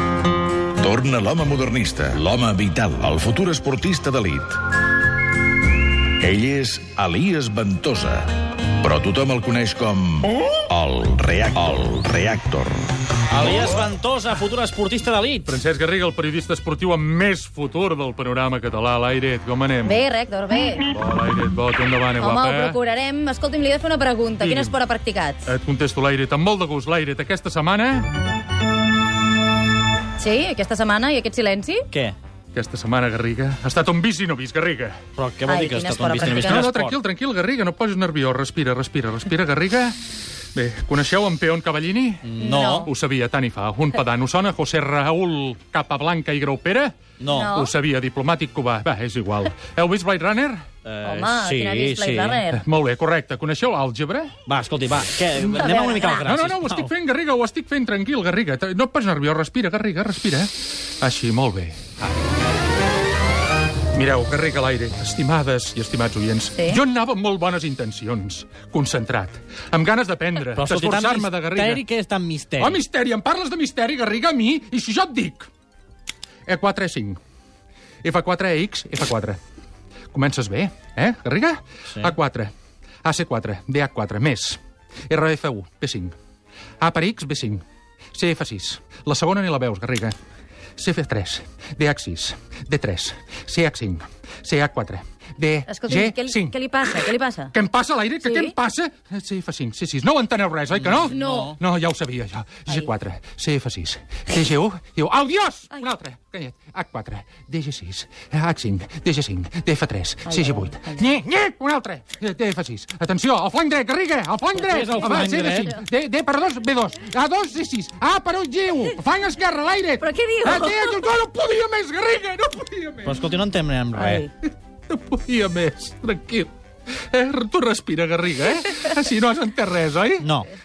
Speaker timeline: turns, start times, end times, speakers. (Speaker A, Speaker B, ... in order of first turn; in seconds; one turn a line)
Speaker A: 0.8-4.6
Speaker A: 6.2-12.9
Speaker B: 13.3-15.5
Speaker C: 15.4-20.0
Speaker D: 19.8-20.9
Speaker C: 20.9-22.8
Speaker D: 22.2-25.5
Speaker C: 24.4-24.7
Speaker C: 25.4-28.1
Speaker D: 30.2-31.9
Speaker B: 31.9-32.1
Speaker C: 32.5-35.1
Speaker B: 35.1-37.0
Speaker D: 35.5-36.7
Speaker C: 36.3-40.0
Speaker C: 40.5-42.3
Speaker B: 42.2-42.9
Speaker D: 42.4-42.9
Speaker C: 42.8-50.7
Speaker B: 47.2-47.5
Speaker D: 47.3-47.7
Speaker B: 50.8-52.4
Speaker D: 51.0-52.6
Speaker C: 52.5-54.4
Speaker B: 54.5-56.9
Speaker C: 55.4-55.7
Speaker D: 55.5-56.3
Speaker C: 56.2-61.8
Speaker C: 63.9-71.8
Speaker D: 66.5-66.8
Speaker B: 70.4-72.8
Speaker C: 72.6-75.5
Speaker C: 76.5-77.2
Speaker C: 78.0-79.4
Speaker C: 80.1-82.5
Speaker C: 83.0-86.1
Speaker C: 86.8-90.1
Speaker C: 90.8-96.5
Speaker D: 95.7-97.5
Speaker C: 97.5-123.4
Speaker D: 98.2-98.5
Speaker B: 100.8-101.6
Speaker D: 101.1-101.5
Speaker D: 110.3-111.1
Speaker B: 114.5-115.7
Speaker D: 120.0-121.0
Speaker B: 123.0-124.2
Speaker D: 124.0-124.3
Speaker C: 124.5-126.5
Speaker C: 127.1-130.3
Speaker B: 130.2-130.5